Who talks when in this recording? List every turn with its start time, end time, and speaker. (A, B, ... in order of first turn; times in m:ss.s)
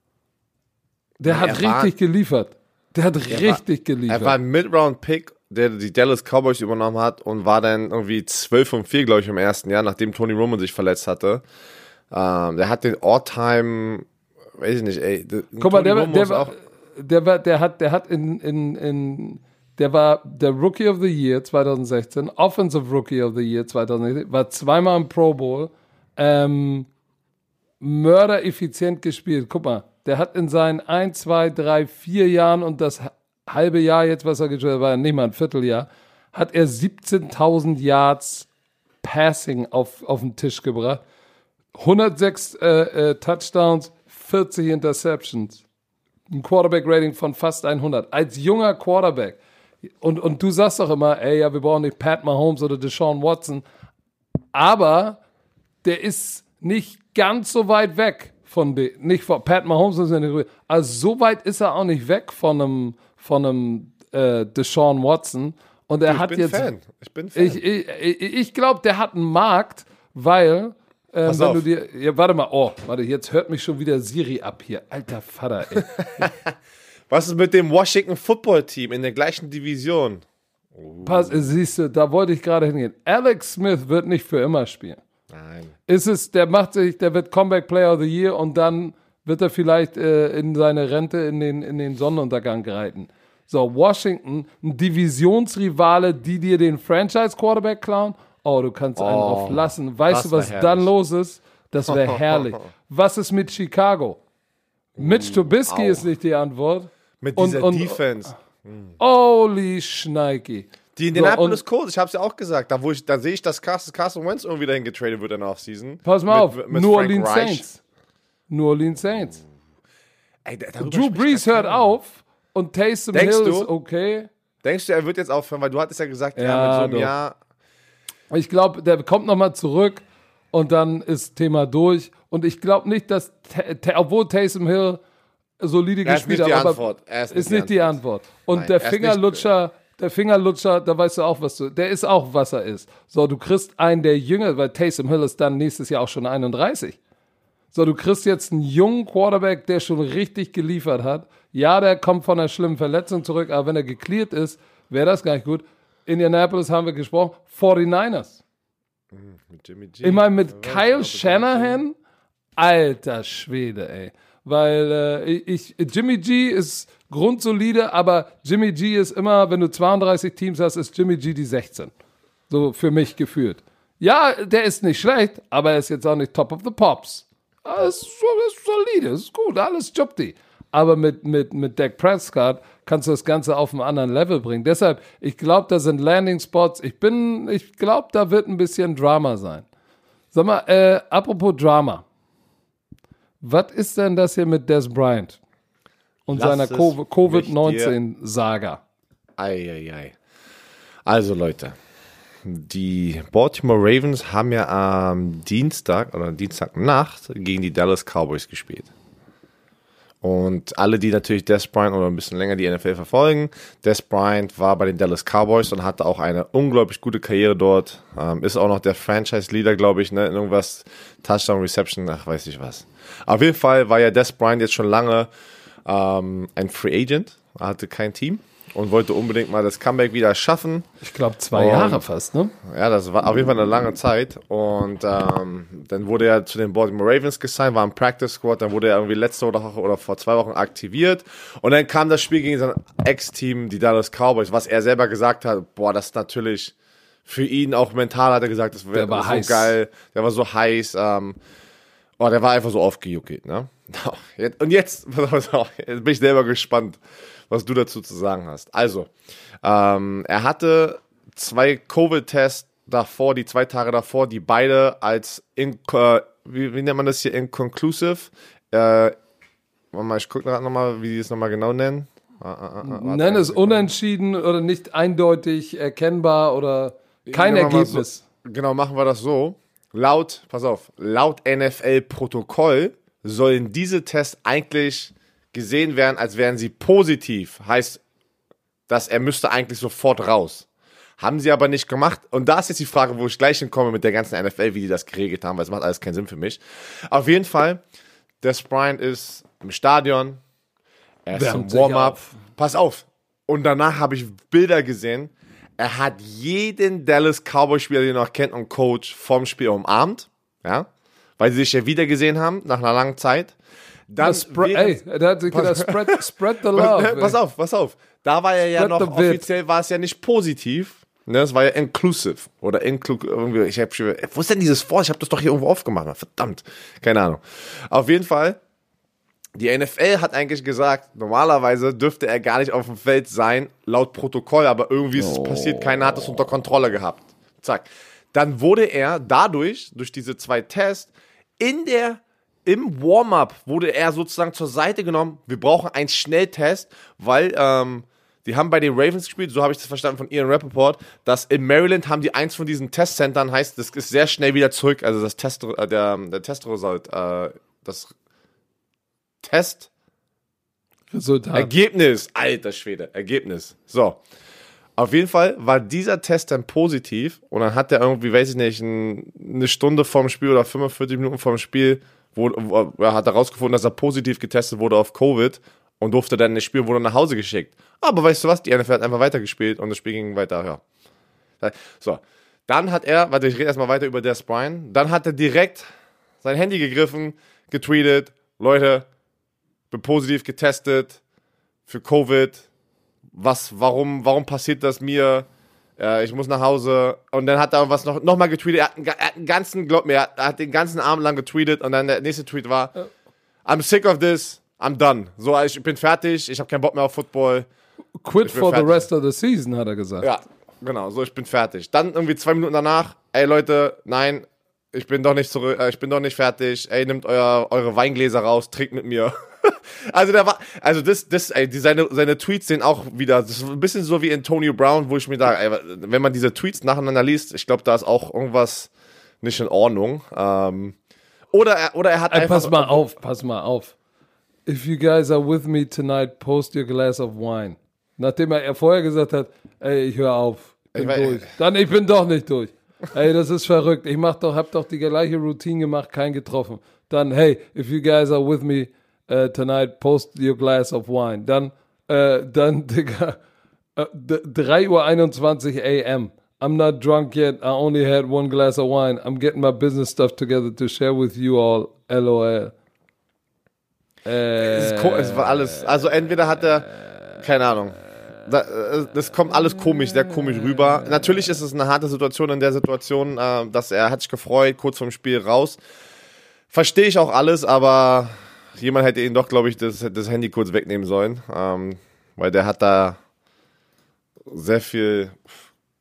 0:01.2-0:01.9 A
0:01.2-0:04.4 B
0:03.3-0:11.4 A
0:12.1-0:14.1 A
0:14.6-0:16.5 A
0:15.6-0:26.9 B
0:27.8-0:38.5 B
0:39.0-0:41.0 B
0:41.8-0:45.6 B
0:46.3-0:49.4 B
0:50.0-0:53.6 B
0:54.5-0:55.2 B
0:55.8-1:06.7 B
1:06.1-1:07.6 A
1:07.4-1:16.3 B
1:11.2-1:11.6 A
1:15.8-1:16.6 A
1:17.1-1:21.5 A
1:21.0-1:25.0 B
1:25.3-1:25.7 A
1:25.9-1:44.2 B
1:39.0-1:40.9 A
1:41.9-1:42.4 A
1:45.0-1:46.1 A
1:45.0-1:48.0 B
1:47.2-1:48.9 A
1:49.0-1:51.6 B
1:51.0-1:57.6 A
1:56.0-1:57.8 B
1:58.5-1:59.4 B
2:00.4-2:01.8 A
2:00.8-2:04.3 B
2:03.1-2:03.7 A
2:04.6-2:07.4 A
2:06.4-2:07.1 B
2:08.3-2:15.0 B
2:15.6-2:27.0 B
2:16.0-2:18.0 A
2:18.5-2:19.4 A
2:27.7-2:38.4 B
2:39.1-2:41.8 A
2:40.0-2:42.0 B
2:42.6-2:51.9 B
2:52.5-3:09.6 B
3:10.3-3:12.0 B
3:13.4-3:15.4 B
3:16.3-3:18.8 B
3:16.3-3:17.9 A
3:19.4-3:20.1 A
3:21.1-3:21.8 A
3:22.4-3:28.9 A
3:30.2-3:45.3 A
3:45.8-3:50.9 A
3:51.0-3:52.6 B
3:51.5-3:52.0 A
3:52.6-4:06.7 A
4:07.3-4:11.4 A
4:08.9-4:09.8 B
4:12.2-4:19.1 A
4:19.6-4:29.1 A
4:29.9-4:33.9 A
4:32.8-4:38.2 B
4:37.3-4:48.0 A
4:48.9-4:50.7 A
4:51.2-4:57.8 A
4:58.4-5:00.4 A
5:01.3-5:10.9 A
5:01.3-5:02.4 B
5:11.4-5:13.6 A
5:14.1-5:15.0 A
5:14.2-5:17.4 B
5:15.5-5:28.6 A
5:18.8-5:19.4 B
5:29.6-5:58.1 A
5:35.2-5:36.3 B
5:59.4-5:59.9 A
6:01.1-6:01.7 B
6:01.6-6:04.2 A
6:05.0-6:20.8 A
6:21.6-6:25.9 A
6:26.4-6:29.1 A
6:29.9-6:31.2 A
6:31.9-6:32.6 A
6:33.3-6:35.5 A
6:36.0-6:42.9 A
6:43.6-6:47.7 A
6:48.2-6:50.3 B
6:48.4-6:49.0 A
6:50.2-7:08.9 A
7:09.4-7:11.0 A
7:11.5-7:13.1 A
7:12.3-7:13.9 B
7:14.6-7:33.4 B
7:20.9-7:21.5 A
7:34.0-7:42.7 B
7:44.2-7:45.7 B
7:44.6-7:55.8 A
7:56.7-8:03.2 A
8:04.5-8:05.5 A